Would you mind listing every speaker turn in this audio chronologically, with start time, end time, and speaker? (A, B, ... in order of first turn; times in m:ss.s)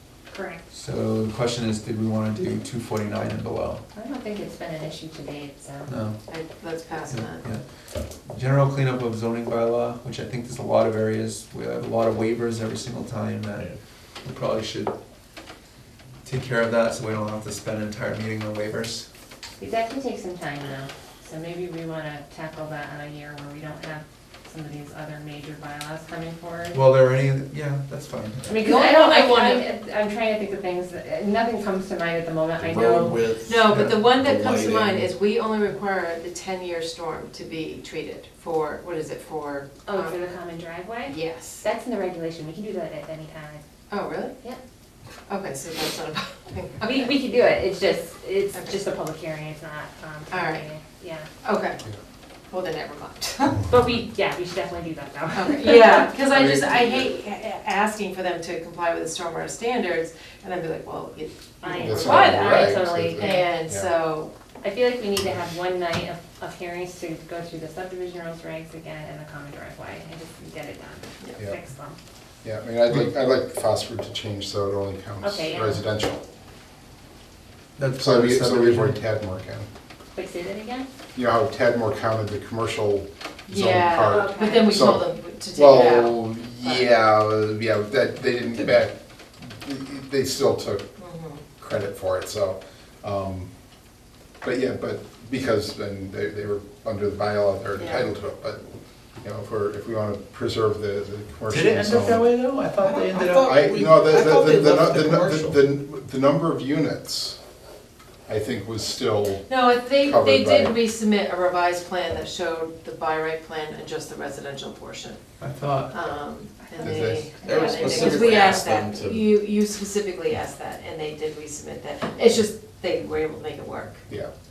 0:00.3-0:00.6 A
0:00.7-0:03.8 B
0:03.9-0:05.9 A
0:05.9-0:06.2 B
0:06.3-0:07.5 C
0:07.1-0:07.6 B
0:08.3-0:13.7 B
0:14.2-0:14.9 B
0:16.2-0:19.1 B
0:19.6-0:26.8 A
0:26.7-0:28.5 B
0:28.5-0:33.2 A
0:28.6-0:29.6 C
0:32.6-0:35.0 D
0:33.4-0:40.2 C
0:33.7-0:34.0 B
0:39.8-0:43.6 A
0:41.1-0:41.6 C
0:43.9-0:44.4 C
0:45.3-0:47.1 C
0:46.8-0:51.3 A
0:48.5-0:48.8 C
0:50.3-0:50.7 C
0:51.4-0:51.8 C
0:52.5-0:53.7 C
0:53.7-0:56.0 A
0:55.3-1:04.3 C
1:01.6-1:03.5 A
1:01.7-1:03.9 E
1:04.6-1:12.0 A
1:12.4-1:16.2 E
1:15.2-1:15.8 A
1:17.8-1:19.0 B
1:18.0-1:19.7 E
1:20.2-1:20.9 A
1:21.2-1:30.9 E
1:23.5-1:26.9 C
1:24.1-1:24.8 A
1:31.0-1:31.4 C
1:31.6-1:33.5 E
1:34.4-1:42.3 E
1:37.8-1:38.1 C
1:41.5-1:43.6 B
1:42.8-1:45.6 D
1:43.4-1:47.4 E
1:48.3-1:50.8 E
1:49.5-1:55.2 C
1:55.4-1:56.0 B
1:55.9-2:04.0 C
1:56.7-1:58.5 A
1:56.8-1:57.3 E
1:57.4-1:59.3 D